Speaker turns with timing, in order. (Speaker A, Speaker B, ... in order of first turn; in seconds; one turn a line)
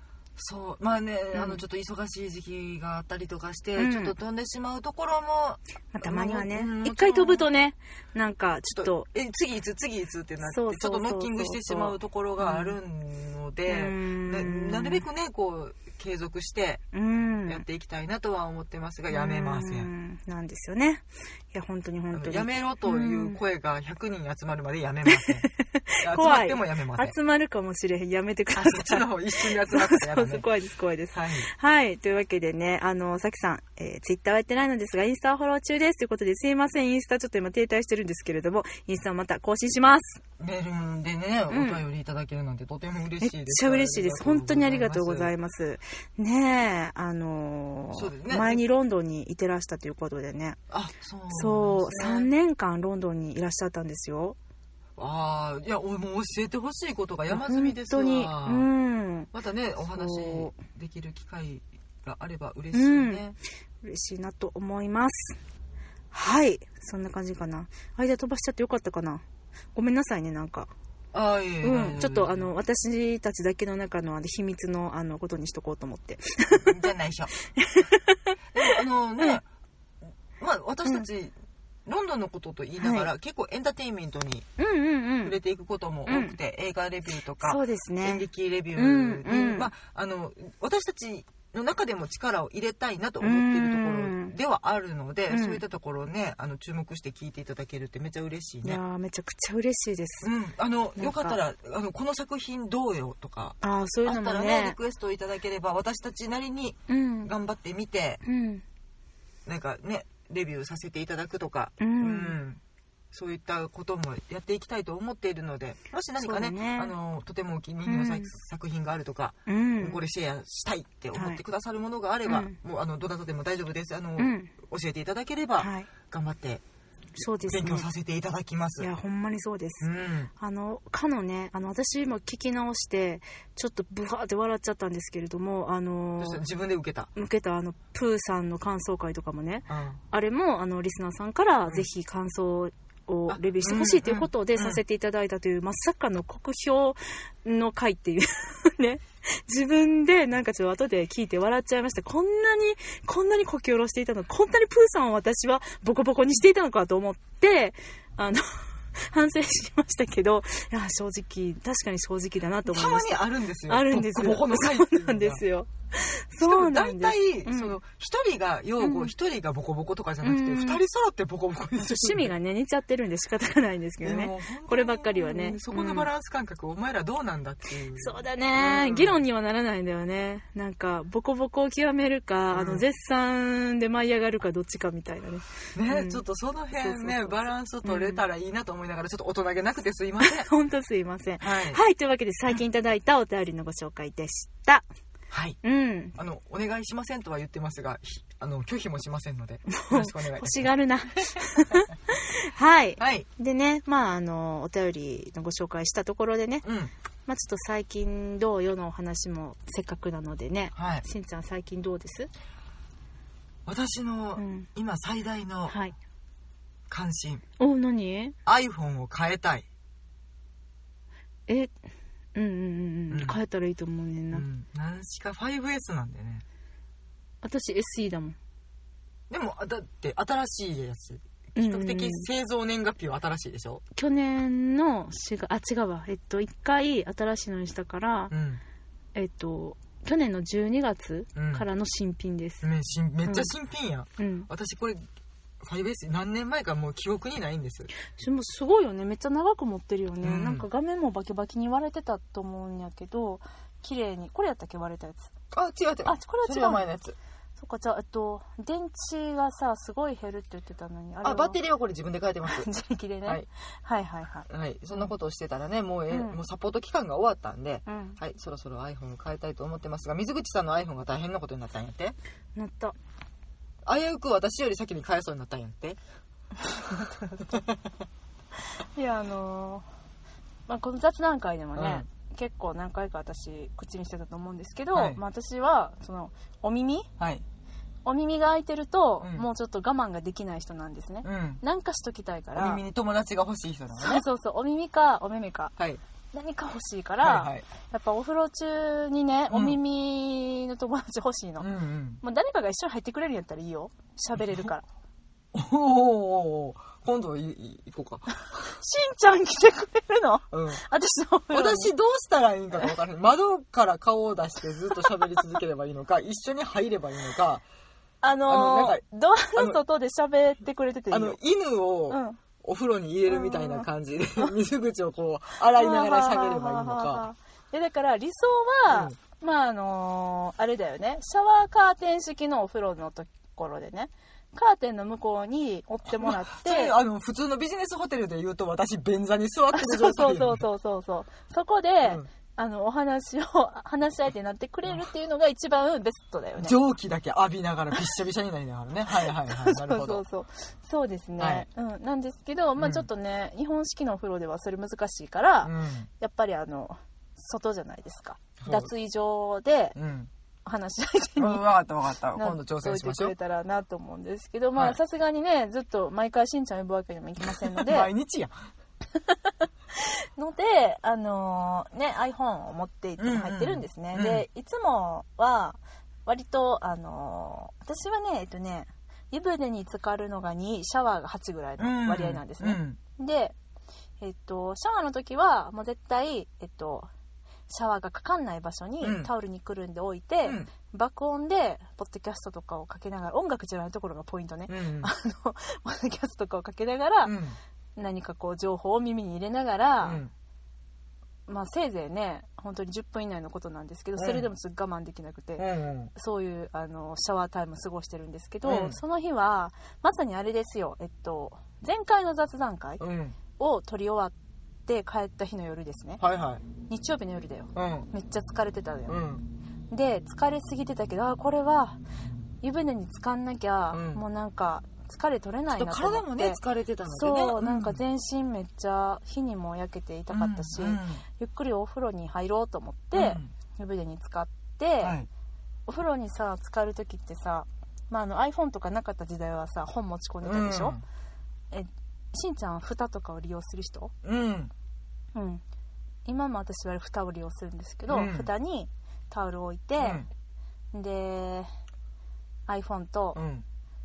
Speaker A: 0.4-7.5
Speaker B: 1.3-1.6
Speaker B: 3.8-4.1
Speaker B: 5.9-9.1
Speaker A: 8.7-16.8
Speaker B: 10.4-12.8
Speaker B: 13.7-15.0
Speaker B: 16.9-17.6
Speaker A: 17.4-19.9
Speaker B: 19.1-23.4
Speaker A: 22.1-25.5
Speaker B: 25.1-40.2
Speaker A: 26.0-27.1
Speaker A: 28.5-30.4
Speaker A: 31.1-31.5
Speaker A: 40.4-45.3
Speaker B: 41.5-41.8
Speaker B: 43.2-50.6
Speaker A: 47.9-48.6
Speaker A: 50.7-52.3
Speaker B: 51.3-54.4
Speaker A: 55.0-58.7
Speaker B: 57.3-59.3
Speaker A: 59.3-63.4
Speaker B: 59.9-60.5
Speaker B: 62.7-63.2
Speaker B: 63.8-65.4
Speaker B: 66.1-69.2
Speaker B: 69.7-70.7
Speaker A: 71.1-72.5
Speaker B: 71.6-76.9
Speaker A: 76.5-77.3
Speaker B: 77.5-79.4
Speaker A: 78.5-79.4
Speaker A: 80.4-81.3
Speaker A: 81.8-84.5
Speaker B: 82.8-83.1
Speaker B: 84.6-85.3
Speaker A: 85.2-98.8
Speaker B: 86.1-86.3
Speaker B: 87.4-89.7
Speaker B: 93.2-94.3
Speaker B: 95.3-95.6
Speaker B: 98.6-100.3
Speaker A: 100.2-108.2
Speaker B: 101.0-101.4
Speaker B: 103.6-104.8
Speaker B: 106.9-107.3
Speaker B: 108.2-108.6
Speaker A: 109.5-112.6
Speaker B: 111.8-112.4
Speaker A: 113.1-126.6
Speaker B: 116.2-116.9
Speaker B: 117.8-118.3
Speaker B: 119.5-120.0
Speaker B: 121.1-121.4
Speaker B: 122.2-122.6
Speaker B: 124.2-124.5
Speaker B: 125.6-125.9
Speaker B: 127.2-127.9
Speaker A: 127.5-128.9
Speaker B: 128.8-136.4
Speaker A: 129.8-130.3
Speaker A: 136.2-137.1
Speaker B: 137.1-167.8
Speaker A: 139.7-140.0
Speaker A: 143.3-144.8
Speaker A: 162.7-165.4
Speaker A: 166.4-172.3
Speaker B: 168.8-169.1
Speaker B: 170.2-170.8
Speaker B: 171.8-176.1
Speaker A: 174.0-179.2
Speaker B: 178.0-186.2
Speaker A: 182.5-182.8
Speaker A: 185.7-190.5
Speaker B: 186.8-188.2
Speaker B: 190.2-194.8
Speaker A: 191.4-191.8
Speaker A: 195.3-195.6
Speaker B: 195.6-196.2
Speaker A: 196.2-200.7
Speaker B: 199.7-206.6
Speaker A: 201.4-201.7
Speaker A: 203.0-203.3
Speaker A: 206.6-206.9
Speaker B: 207.3-212.3
Speaker A: 210.7-211.0
Speaker A: 213.7-215.7
Speaker B: 214.4-214.7
Speaker B: 215.7-215.9
Speaker A: 216.9-217.4
Speaker B: 217.6-218.3
Speaker A: 218.4-219.6
Speaker B: 221.5-221.8
Speaker B: 222.3-224.4
Speaker A: 223.1-223.4
Speaker A: 224.3-226.4
Speaker B: 227.4-228.3
Speaker A: 229.3-233.8
Speaker B: 231.6-232.3
Speaker B: 233.9-238.3
Speaker A: 238.3-238.6
Speaker B: 239.1-242.6
Speaker A: 241.3-241.7
Speaker A: 242.6-245.0
Speaker B: 243.2-243.5
Speaker B: 244.2-244.5
Speaker A: 245.6-247.9
Speaker B: 248.1-255.3
Speaker A: 250.2-250.7
Speaker A: 255.5-257.1
Speaker B: 256.0-256.9
Speaker B: 257.6-261.6
Speaker A: 261.2-262.7
Speaker B: 262.4-265.1
Speaker A: 264.5-272.1
Speaker B: 266.1-266.4
Speaker B: 267.9-268.2
Speaker B: 272.6-272.9
Speaker A: 273.8-276.0
Speaker B: 276.6-277.5
Speaker A: 277.5-277.8
Speaker B: 278.9-279.8
Speaker B: 280.7-287.1
Speaker A: 281.7-282.1
Speaker A: 284.9-285.2
Speaker B: 288.1-292.8
Speaker A: 291.2-291.6
Speaker A: 292.5-294.2
Speaker B: 293.9-295.7
Speaker B: 296.3-301.7
Speaker A: 297.2-297.6
Speaker A: 299.5-299.8
Speaker A: 301.6-302.2
Speaker B: 302.2-304.8
Speaker A: 304.4-304.7
Speaker A: 305.5-308.7
Speaker B: 308.4-311.9
Speaker A: 310.5-310.8
Speaker A: 311.5-317.6
Speaker B: 315.1-315.4
Speaker B: 318.2-321.4
Speaker A: 318.5-319.0
Speaker A: 319.6-319.8
Speaker A: 321.1-327.3
Speaker B: 322.1-322.4
Speaker B: 323.3-323.9
Speaker B: 325.7-336.9
Speaker A: 336.2-340.6
Speaker B: 339.7-346.8
Speaker A: 346.6-350.2
Speaker B: 349.2-359.9
Speaker A: 351.4-351.7
Speaker A: 352.8-353.1
Speaker A: 355.6-356.1
Speaker A: 358.6-358.9
Speaker A: 359.9-360.3
Speaker B: 360.6-361.7
Speaker A: 361.4-363.3
Speaker B: 362.3-368.1
Speaker A: 367.4-368.5
Speaker B: 369.2-383.5
Speaker A: 373.2-374.4
Speaker A: 381.8-383.0
Speaker B: 384.2-387.1
Speaker B: 387.7-397.3
Speaker A: 389.0-389.3
Speaker A: 390.4-390.7
Speaker A: 394.7-395.1
Speaker A: 397.2-397.6
Speaker B: 398.0-400.2
Speaker A: 400.0-400.3
Speaker B: 401.5-413.0
Speaker A: 404.2-404.5
Speaker A: 405.6-406.1
Speaker A: 408.6-409.0
Speaker A: 413.0-413.4
Speaker B: 413.6-414.3
Speaker B: 414.9-416.2
Speaker A: 416.2-416.6
Speaker B: 416.9-419.2
Speaker A: 417.7-418.1
Speaker A: 419.1-419.4
Speaker B: 419.9-422.0
Speaker B: 422.6-435.2
Speaker A: 423.9-424.2
Speaker A: 425.7-428.0
Speaker A: 430.3-431.2
Speaker A: 433.1-433.5
Speaker A: 435.0-435.3
Speaker B: 435.9-440.9
Speaker A: 440.4-441.0
Speaker B: 441.7-444.1
Speaker A: 444.2-444.7
Speaker B: 445.3-445.6
Speaker B: 446.2-450.2
Speaker A: 448.1-448.5
Speaker A: 450.0-450.2
Speaker B: 450.9-451.7
Speaker B: 452.7-453.4
Speaker A: 453.3-453.6